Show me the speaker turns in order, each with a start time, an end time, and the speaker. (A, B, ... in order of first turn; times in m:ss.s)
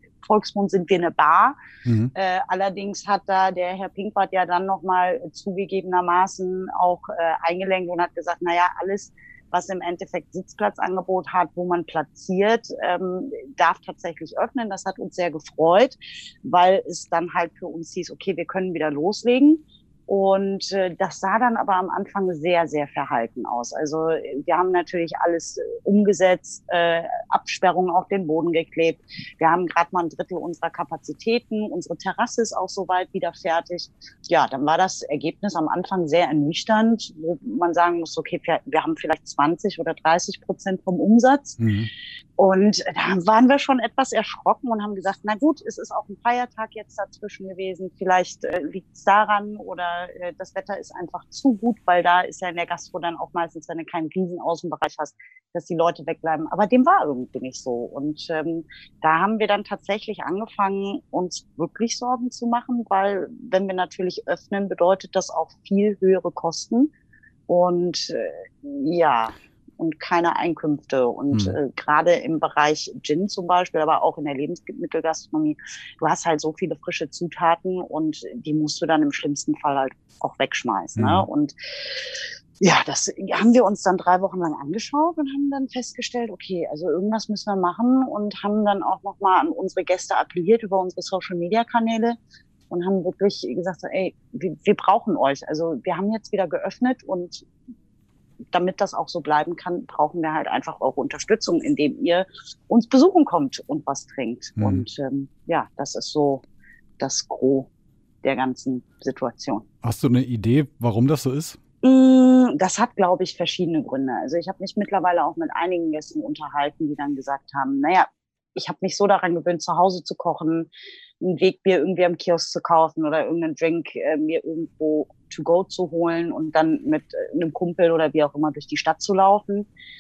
0:00.2-0:01.6 A
0:01.9-0:02.1 B
0:02.1-0:41.6 A
0:41.6-0:41.9 B
0:42.4-1:06.9 A
1:07.5-1:22.1 A
1:21.0-1:21.3 B
1:22.6-1:32.2 A
1:32.7-1:37.5 A
1:38.5-1:46.4 A
1:44.6-1:44.8 B
1:47.0-1:47.7 A
1:48.2-1:49.7 A
1:49.8-1:51.6 B
1:51.8-2:00.7 A
2:01.2-2:09.7 A